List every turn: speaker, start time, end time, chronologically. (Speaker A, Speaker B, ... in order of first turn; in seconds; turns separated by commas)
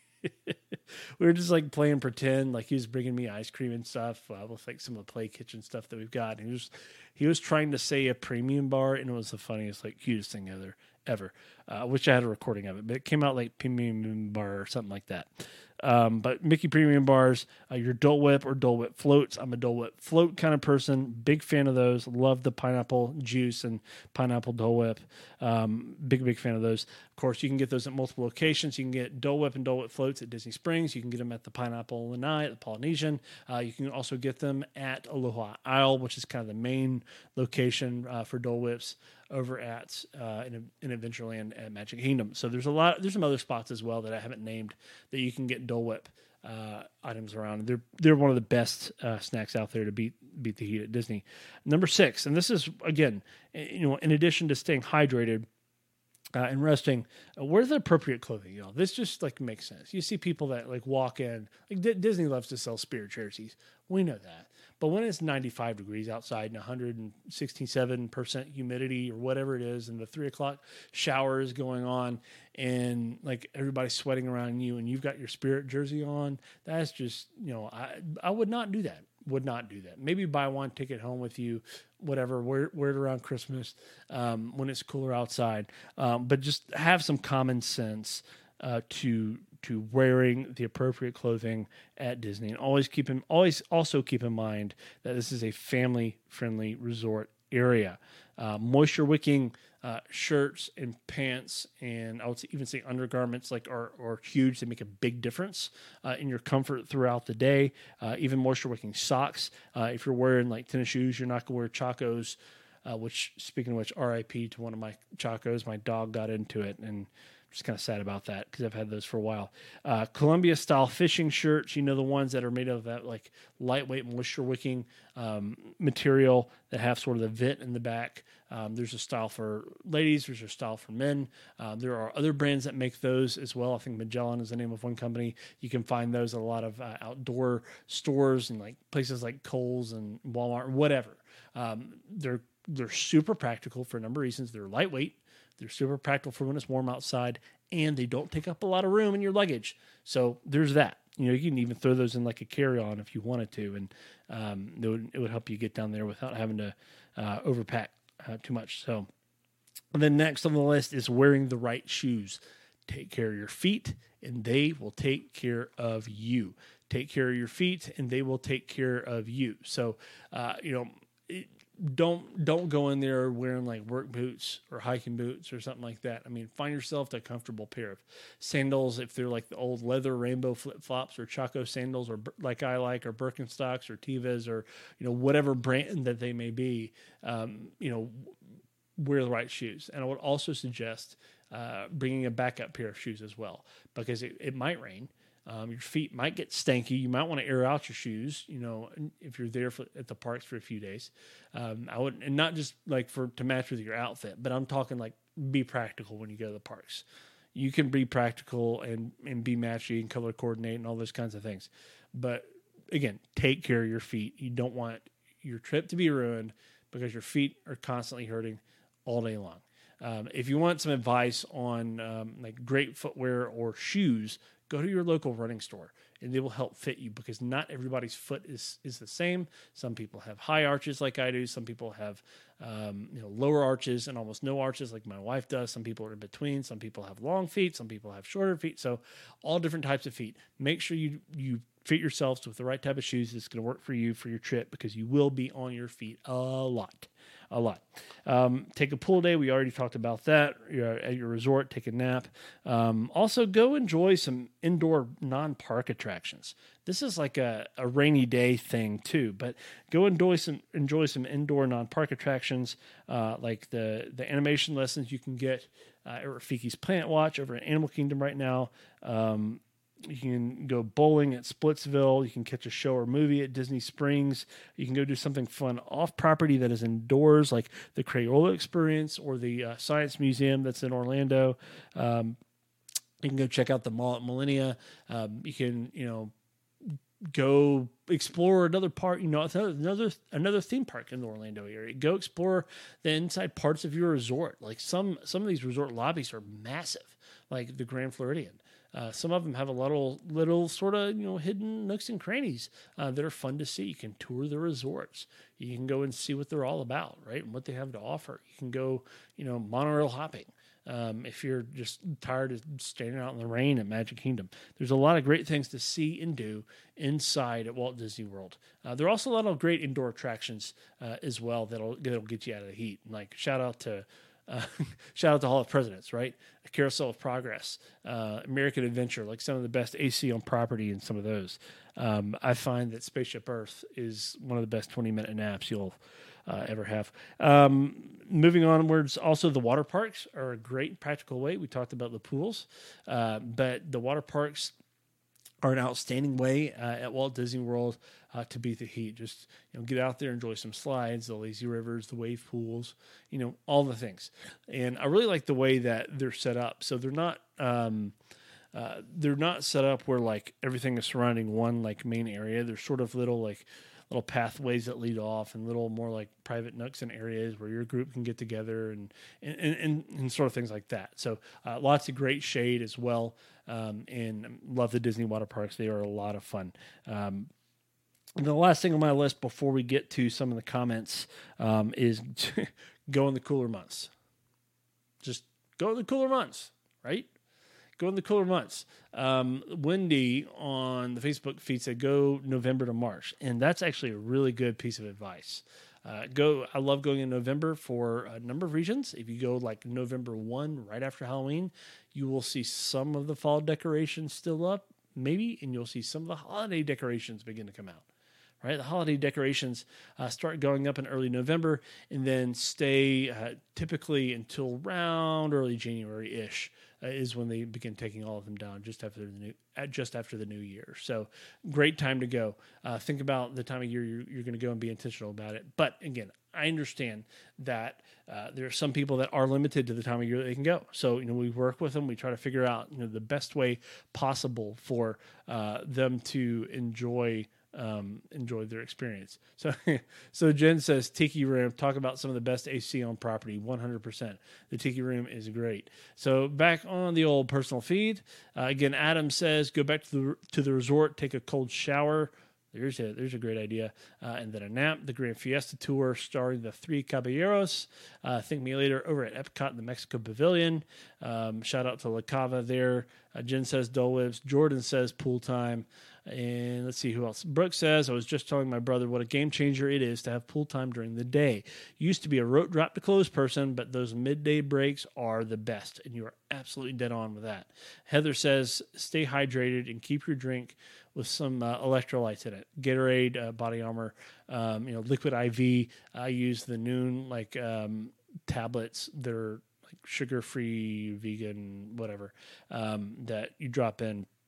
Speaker A: 0.2-55.5, Speaker A: 56.4-159.1, Speaker A: 159.9-188.3, Speaker A: 189.0-207.0, Speaker A: 207.5-282.4, Speaker A: 283.2-286.3, Speaker A: 287.3-344.7, Speaker A: 345.6-358.1, Speaker A: 358.7-377.5, Speaker A: 378.4-384.1, Speaker A: 385.2-387.3, Speaker A: 388.0-408.0, Speaker A: 408.6-494.3